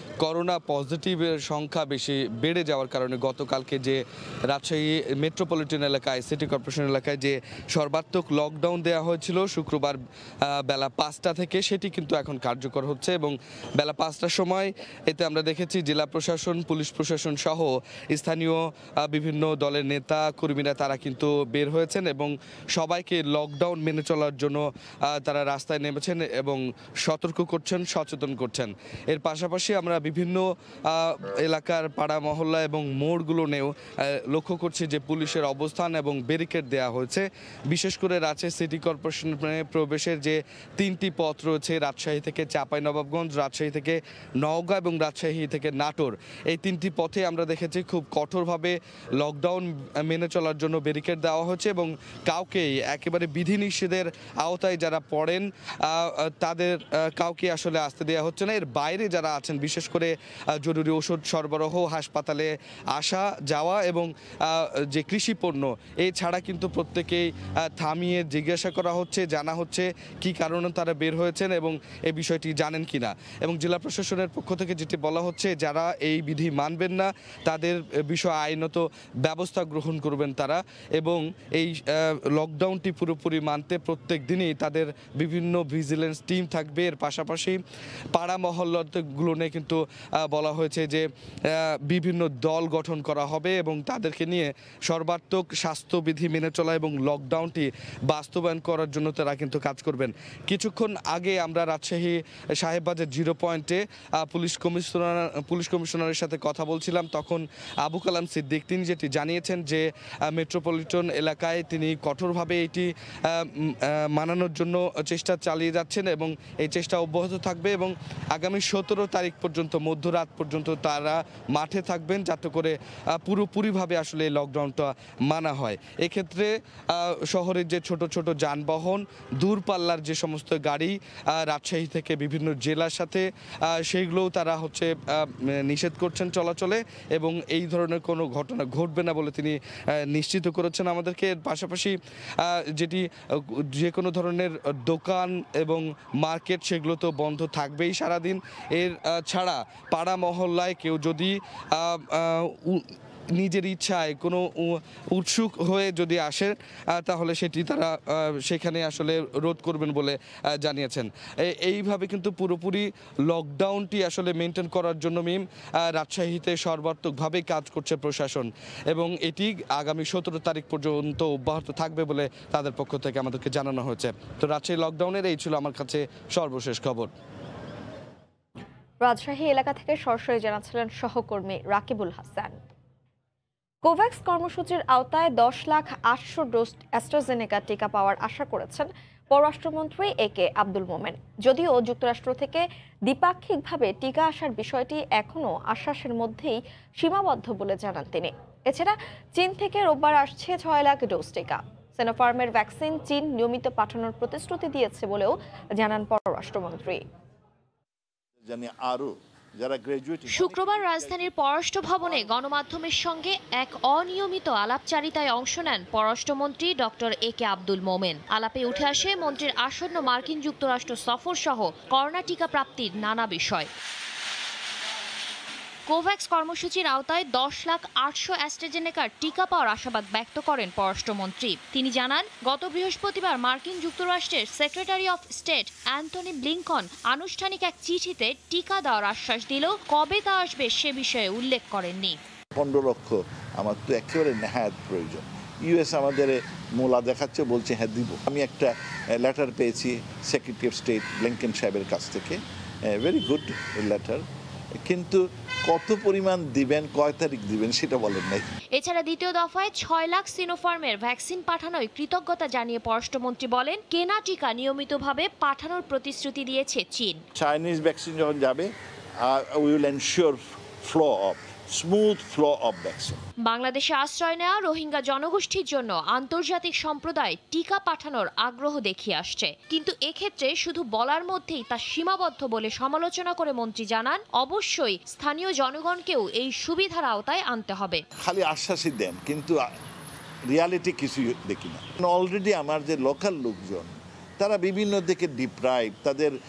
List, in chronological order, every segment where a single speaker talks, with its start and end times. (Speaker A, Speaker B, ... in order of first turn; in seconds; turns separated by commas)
Speaker A: 0.2-87.6, Speaker A: 88.1-139.6, Speaker A: 140.1-152.8, Speaker A: 153.4-177.1, Speaker B: 179.0-182.5, Speaker B: 183.8-207.0, Speaker C: 208.4-211.3, Speaker D: 210.3-223.7, Speaker C: 212.0-212.3, Speaker D: 225.9-242.2, Speaker C: 242.5-252.4, Speaker C: 252.9-254.2, Speaker C: 254.8-258.5, Speaker D: 258.7-267.2, Speaker C: 267.3-268.7, Speaker C: 269.2-273.2, Speaker D: 273.4-288.0, Speaker C: 288.2-289.6, Speaker C: 290.5-296.3